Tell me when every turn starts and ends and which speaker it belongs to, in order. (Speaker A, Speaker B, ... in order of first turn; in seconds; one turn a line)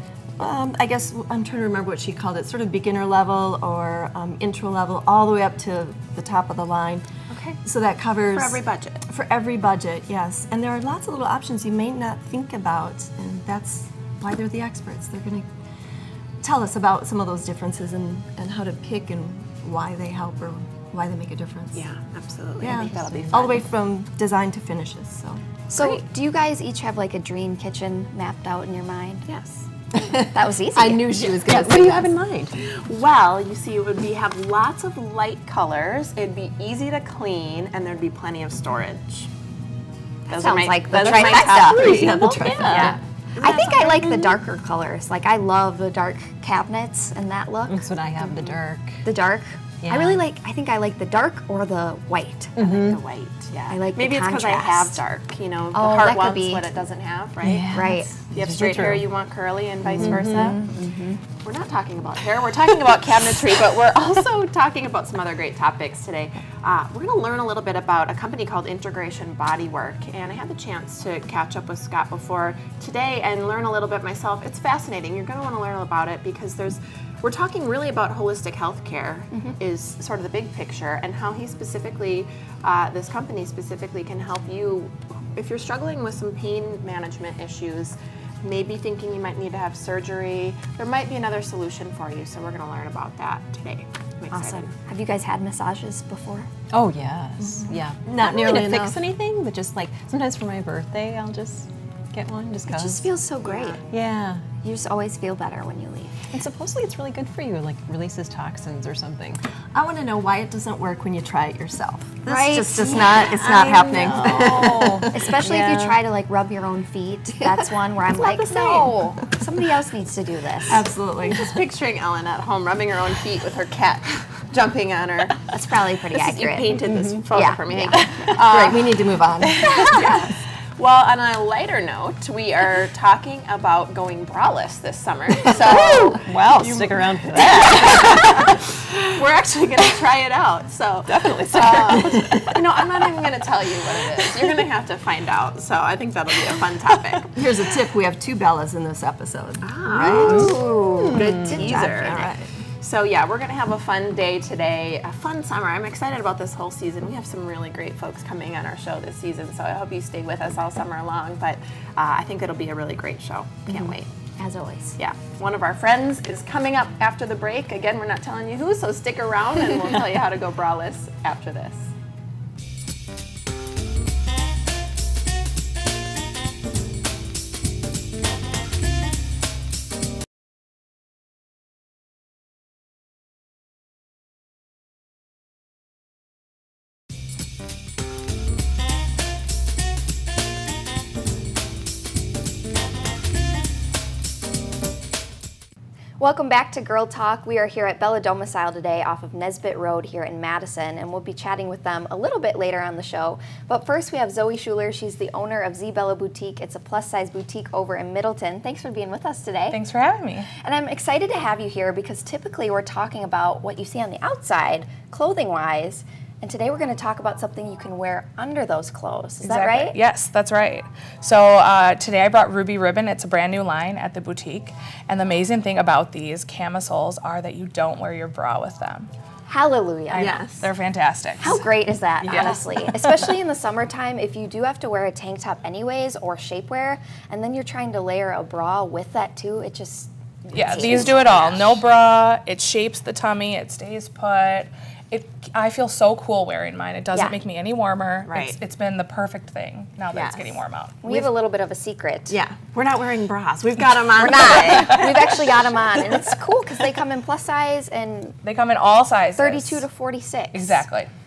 Speaker A: 0.4-7.0
Speaker A: 7.6-15.4
Speaker B: 8.2-9.0
Speaker A: 16.4-21.9
Speaker B: 21.7-23.6
Speaker A: 22.6-25.6
Speaker C: 22.7-23.1
Speaker D: 25.7-29.2
Speaker B: 29.3-29.6
Speaker C: 30.0-32.5
Speaker D: 30.3-31.2
Speaker A: 31.4-32.1
Speaker B: 32.6-39.3
Speaker B: 40.3-44.2
Speaker D: 40.3-48.5
Speaker A: 40.9-43.0
Speaker C: 41.7-42.9
Speaker C: 47.7-49.0
Speaker D: 49.0-52.6
Speaker C: 49.8-50.2
Speaker C: 52.6-53.0
Speaker B: 52.6-57.7
Speaker D: 53.7-55.0
Speaker D: 55.7-56.6
Speaker C: 57.4-59.0
Speaker D: 57.7-58.1
Speaker B: 58.3-60.6
Speaker C: 59.9-60.8
Speaker D: 59.9-61.2
Speaker B: 61.3-94.7
Speaker D: 94.3-96.5
Speaker C: 96.7-103.1
Speaker A: 98.0-99.0
Speaker D: 102.7-103.8
Speaker B: 103.4-104.0
Speaker C: 103.9-104.5
Speaker D: 104.6-106.2
Speaker C: 106.3-109.4
Speaker A: 109.7-115.1
Speaker D: 112.2-114.4
Speaker C: 113.2-116.0
Speaker D: 115.1-120.8
Speaker B: 118.1-119.0
Speaker A: 120.7-121.5
Speaker B: 121.2-125.5
Speaker D: 125.5-126.8
Speaker B: 126.1-136.2
Speaker C: 126.9-127.2
Speaker D: 127.3-128.3
Speaker A: 128.4-129.7
Speaker C: 135.5-138.4
Speaker A: 135.6-138.3
Speaker B: 136.8-147.4
Speaker C: 141.4-142.3
Speaker A: 141.5-142.4
Speaker A: 147.3-152.4
Speaker B: 149.6-164.1
Speaker D: 150.2-152.3
Speaker C: 151.1-151.5
Speaker D: 164.4-165.0
Speaker B: 165.0-171.9
Speaker D: 196.2-209.8
Speaker E: 209.7-210.5
Speaker D: 210.6-219.9
Speaker E: 219.4-229.1
Speaker D: 229.5-230.4
Speaker E: 230.1-231.6
Speaker A: 230.2-230.4
Speaker D: 231.4-241.8
Speaker E: 232.2-232.6
Speaker E: 240.5-251.0
Speaker B: 240.9-241.5
Speaker B: 248.3-248.6
Speaker B: 250.1-251.3
Speaker D: 251.0-252.4
Speaker B: 252.3-255.5
Speaker D: 254.2-258.4
Speaker E: 258.4-259.8
Speaker D: 259.4-260.8
Speaker E: 260.5-261.1